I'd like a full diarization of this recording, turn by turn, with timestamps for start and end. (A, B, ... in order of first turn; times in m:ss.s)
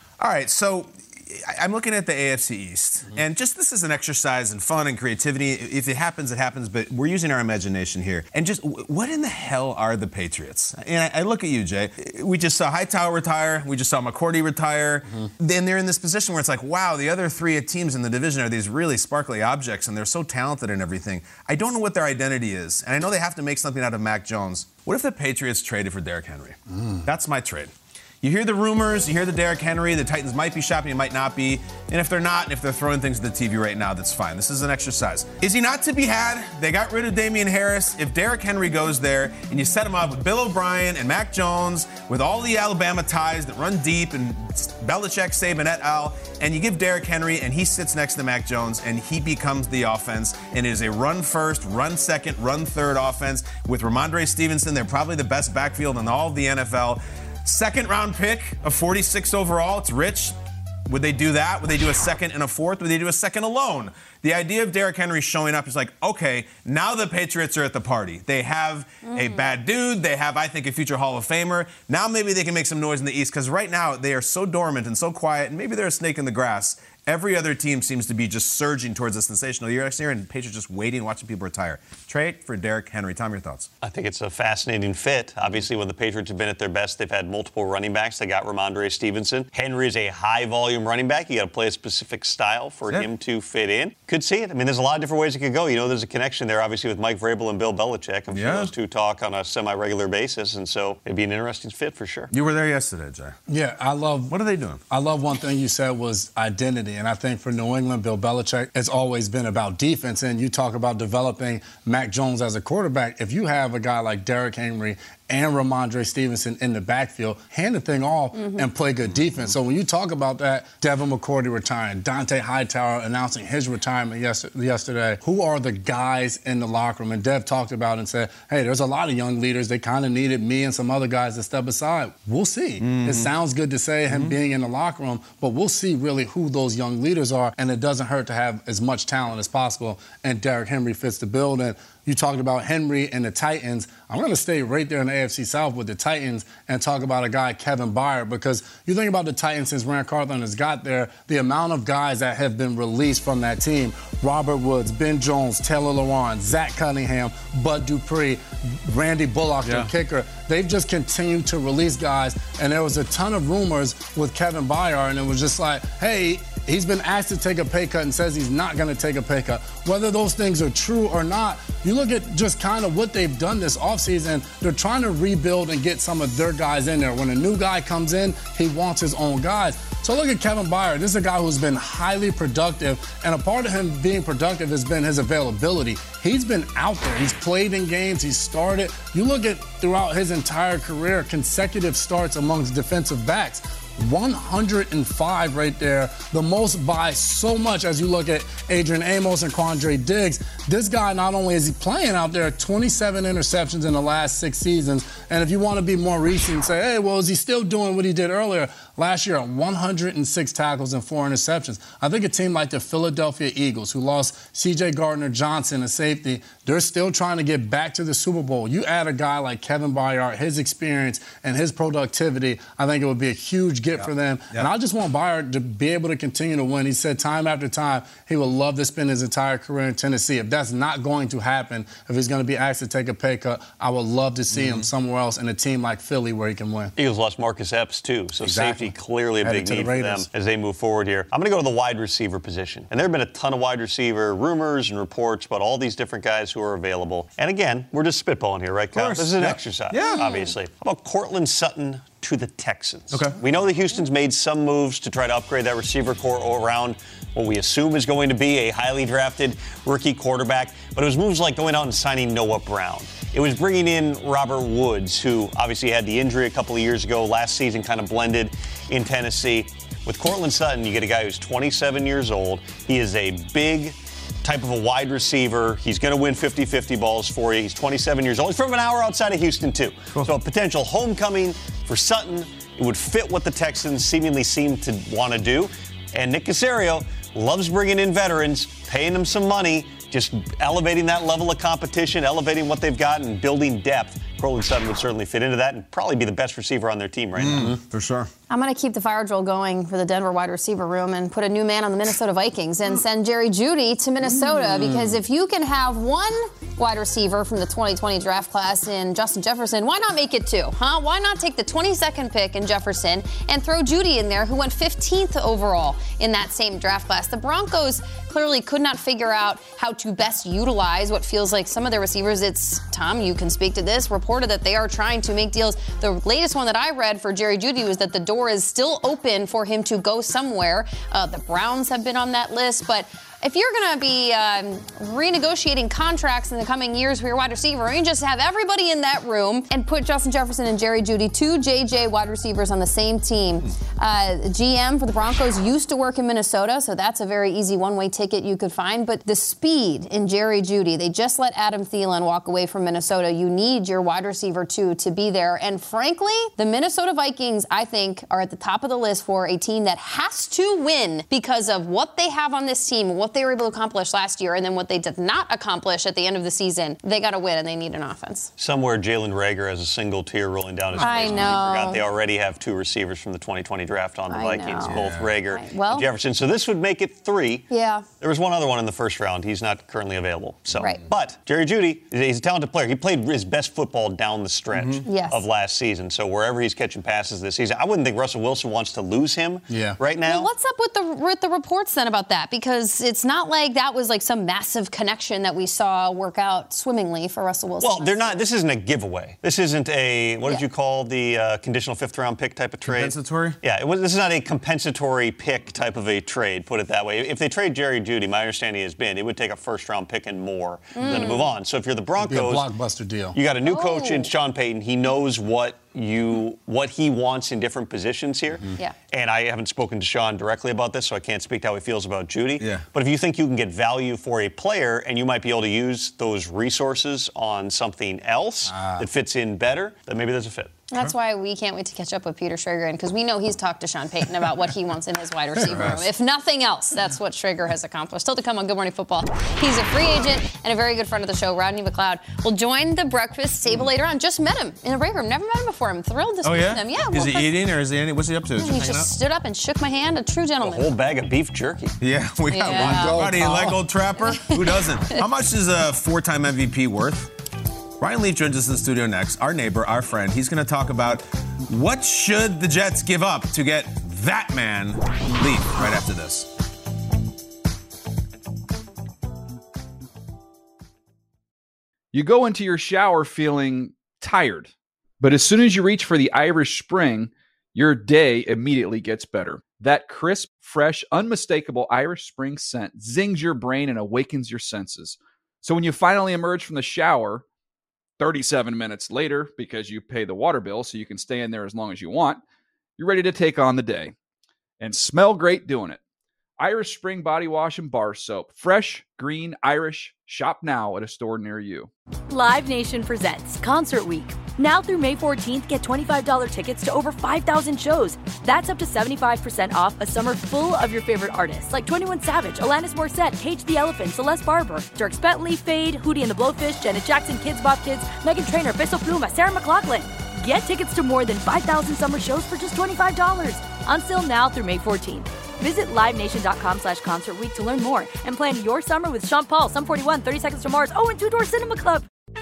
0:00.2-1:23.7 A
1:09.1-1:09.4 B
1:23.8-1:42.3 C
1:38.3-1:38.7 A
1:42.3-1:43.4 A
1:43.5-1:44.3 D
1:44.3-1:44.8 A
1:44.9-3:56.9 D
1:58.3-1:58.6 B
2:12.8-2:13.3 A
2:14.1-2:14.4 A
2:39.6-2:39.9 A
3:44.0-3:44.7 A
3:54.5-3:54.9 A
3:57.0-4:57.7 C
3:58.4-3:58.9 D
3:59.4-4:00.3 D
4:08.9-4:10.3 A
4:10.0-4:10.5 B
4:13.1-4:13.4 A
4:40.1-4:40.4 A
4:57.4-4:58.3 A
4:58.5-6:08.5 B
5:04.2-5:05.2 A
6:08.6-6:17.6 C
6:10.9-6:11.6 A
6:11.0-6:12.0 B
6:14.3-6:16.1 B
6:14.8-6:15.4 A
6:17.7-6:18.1 B
6:18.2-6:30.5 C
6:20.7-6:21.0 A
6:20.8-6:21.1 B
6:24.7-6:25.0 A
6:25.0-6:25.4 B
6:29.7-6:30.0 D
6:30.2-6:38.4 B
6:37.8-6:52.7 C
6:42.8-6:43.6 A
6:50.9-6:51.5 B
6:52.2-6:53.4 D
6:53.3-7:10.8 C
6:53.6-6:54.3 B
7:02.6-7:02.8 A
7:08.7-7:09.0 D
7:10.9-7:27.5 B
7:15.7-7:16.1 A
7:26.4-7:29.1 A
7:28.6-7:30.9 B
7:30.6-7:32.0 C
7:32.0-7:37.3 A
7:32.5-7:33.3 B
7:32.7-7:33.8 D
7:34.4-7:35.2 B
7:38.0-7:46.5 A
7:52.1-8:07.4 E
8:08.2-8:12.4 E
8:13.0-8:14.1 E
8:14.8-8:16.0 E
8:16.6-8:21.9 E
8:22.3-8:52.0 F